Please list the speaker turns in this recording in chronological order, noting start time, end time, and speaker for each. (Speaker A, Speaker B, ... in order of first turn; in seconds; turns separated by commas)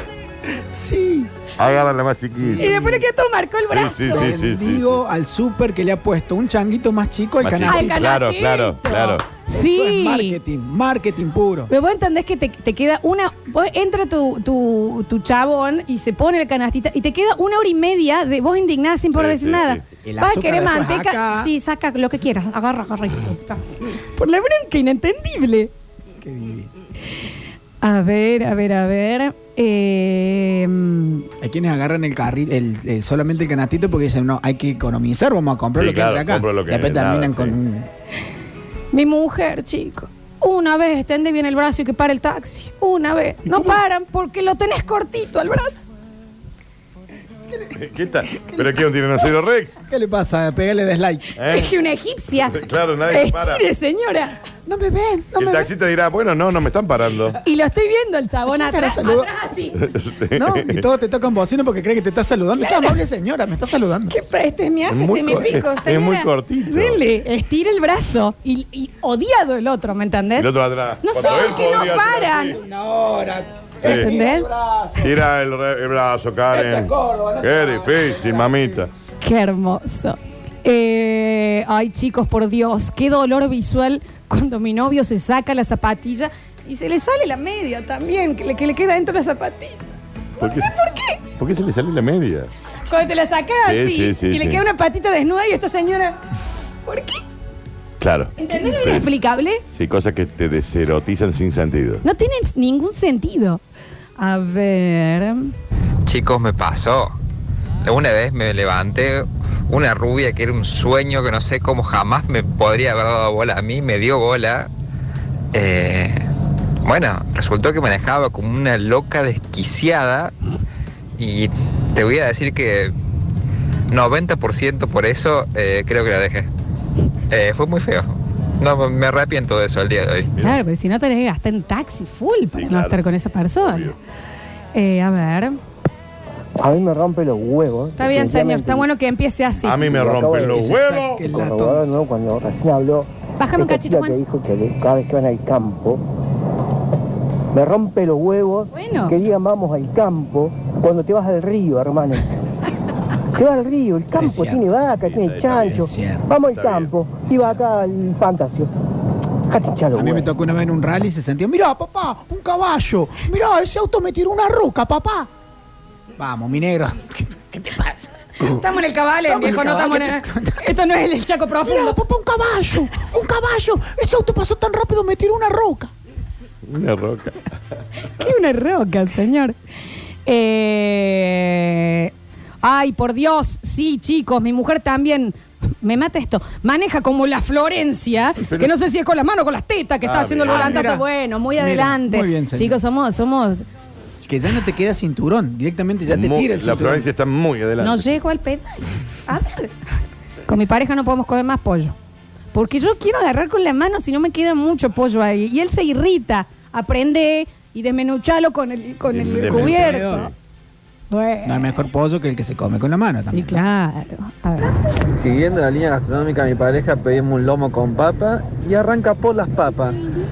Speaker A: 0.6-1.5, Speaker B: 1.6-2.8, Speaker A: 2.3-3.1, Speaker C: 2.6-4.3, Speaker B: 3.7-5.0, Speaker A: 4.1-8.0, Speaker B: 7.4-9.2, Speaker C: 7.7-10.4, Speaker A: 9.5-11.7, Speaker C: 11.7-25.7, Speaker B: 19.2-19.8, Speaker A: 20.1-21.5, Speaker A: 26.2-26.7, Speaker C: 27.8-31.3, Speaker A: 31.4-37.9, Speaker B: 35.8-37.6, Speaker C: 38.9-45.9, Speaker B: 47.7-49.8, Speaker A: 49.9-51.3, Speaker B: 51.4-51.7, Speaker C: 51.4-54.4, Speaker B: 52.5-53.6, Speaker A: 54.7-55.7, Speaker B: 55.4-57.4, Speaker C: 57.4-59.8, Speaker A: 58.5-59.3, Speaker B: 59.8-60.9, Speaker A: 60.4-64.1, Speaker C: 62.6-63.0, Speaker C: 64.1-70.5, Speaker B: 64.9-67.0, Speaker B: 70.4-72.6, Speaker C: 71.0-72.6, Speaker A: 71.2-75.1, Speaker B: 73.8-74.1, Speaker C: 73.8-74.5, Speaker B: 75.0-78.9, Speaker A: 76.5-78.8, Speaker C: 79.2-89.8, Speaker B: 90.4-90.7, Speaker C: 90.4-91.2, Speaker B: 91.4-92.5, Speaker C: 92.9-96.2, Speaker B: 93.7-94.6, Speaker C: 96.9-97.2, Speaker B: 98.0-99.1, Speaker C: 98.4-99.6, Speaker B: 99.7-102.0, Speaker C: 102.0-103.6, Speaker C: 104.2-105.5, Speaker D: 106.1-107.1, Speaker D: 107.8-114.7, Speaker D: 115.5-116.2, Speaker D: 116.8-120.3, Speaker D: 121.2-122.9, Speaker D: 123.9-126.5, Speaker D: 127.3-130.3, Speaker C: 130.4-133.9, Speaker B: 132.5-133.0, Speaker B: 133.6-134.0, Speaker C: 134.7-135.6, Speaker E: 136.6-138.9, Speaker C: 138.0-139.8, Speaker B: 139.7-141.2, Speaker E: 139.8-140.6, Speaker A: 140.2-141.8, Speaker E: 141.3-146.0, Speaker C: 143.4-144.2, Speaker E: 147.5-152.3, Speaker C: 148.7-149.2, Speaker E: 153.3-158.7, Speaker A: 154.2-154.7, Speaker B: 155.0-155.9, Speaker A: 155.7-156.3, Speaker B: 156.5-156.9, Speaker A: 157.3-157.6, Speaker E: 159.5-160.3, Speaker A: 159.9-165.3, Speaker A: 166.2-170.7, Speaker C: 168.4-172.0, Speaker A: 171.6-175.9, Speaker B: 176.7-177.6, Speaker C: 178.2-179.6, Speaker C: 180.3-193.7, Speaker B: 188.4-188.7, Speaker B: 190.0-190.9, Speaker A: 190.5-191.1, Speaker A: 191.6-192.8, Speaker A: 194.3-197.1, Speaker B: 196.1-198.2, Speaker C: 197.8-199.8, Speaker C: 200.5-201.9, Speaker C: 202.5-210.3, Speaker B: 209.1-210.3, Speaker A: 209.5-210.3, Speaker C: 211.1-211.7, Speaker A: 211.4-213.6, Speaker C: 213.2-214.8, Speaker F: 215.1-220.0